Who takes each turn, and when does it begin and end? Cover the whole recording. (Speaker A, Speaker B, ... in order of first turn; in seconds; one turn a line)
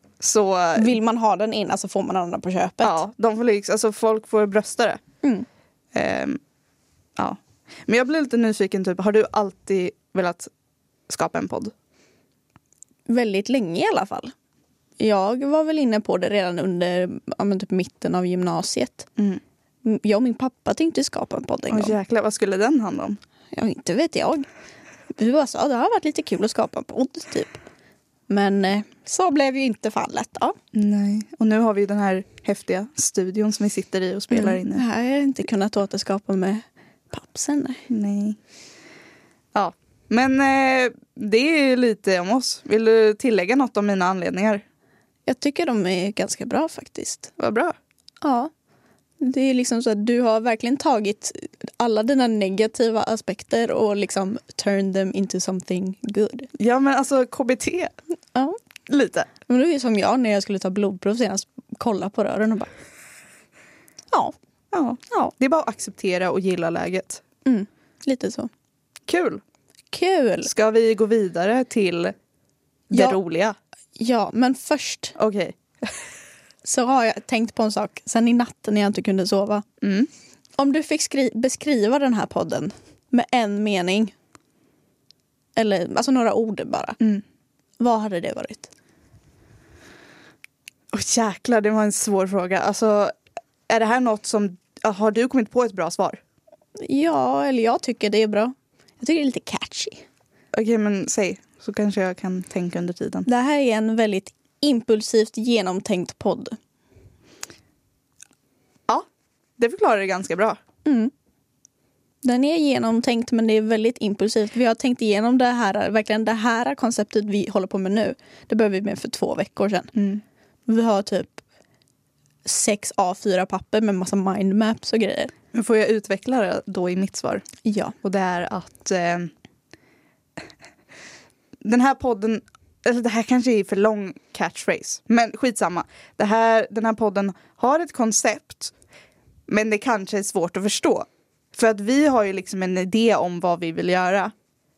Speaker A: 0.2-1.0
Speaker B: 0.7-3.0
Speaker A: 2.8-5.0
Speaker A: 5.9-6.4
Speaker A: 7.2-10.5
Speaker A: 11.1-11.7
Speaker B: 13.1-14.3
Speaker B: 15.0-19.1
Speaker B: 19.8-21.9
Speaker A: 21.7-23.2
Speaker B: 23.5-24.4
Speaker B: 25.1-27.6
Speaker B: 28.3-30.6
Speaker A: 30.7-34.8
Speaker B: 34.3-37.8
Speaker A: 37.9-38.4
Speaker A: 39.5-44.6
Speaker B: 45.2-47.3
Speaker A: 47.4-47.8
Speaker B: 48.2-48.5
Speaker B: 49.2-56.5
Speaker A: 56.6-57.9
Speaker A: 58.9-59.3
Speaker B: 59.4-62.7
Speaker A: 64.7-67.2
Speaker B: 67.5-68.5
Speaker A: 69.1-69.4
Speaker B: 69.9-70.5
Speaker A: 70.4-72.1
Speaker A: 72.9-73.5
Speaker B: 72.9-73.2
Speaker B: 74.0-75.2
Speaker A: 75.2-75.9
Speaker B: 76.6-79.6
Speaker A: 79.8-80.1
Speaker B: 80.6-84.1
Speaker B: 85.5-87.0
Speaker B: 87.8-88.7
Speaker A: 90.9-93.1
Speaker A: 93.7-96.2
Speaker B: 96.8-100.0
Speaker A: 100.5-103.3
Speaker B: 103.2-106.6
Speaker A: 109.6-110.6
Speaker B: 110.8-111.1
Speaker B: 112.2-119.9
Speaker A: 119.9-120.2
Speaker B: 120.7-121.4
Speaker B: 122.4-125.3
Speaker A: 125.5-127.4
Speaker B: 127.6-127.9
Speaker A: 128.0-129.3
Speaker A: 131.6-138.7
Speaker A: 139.5-144.3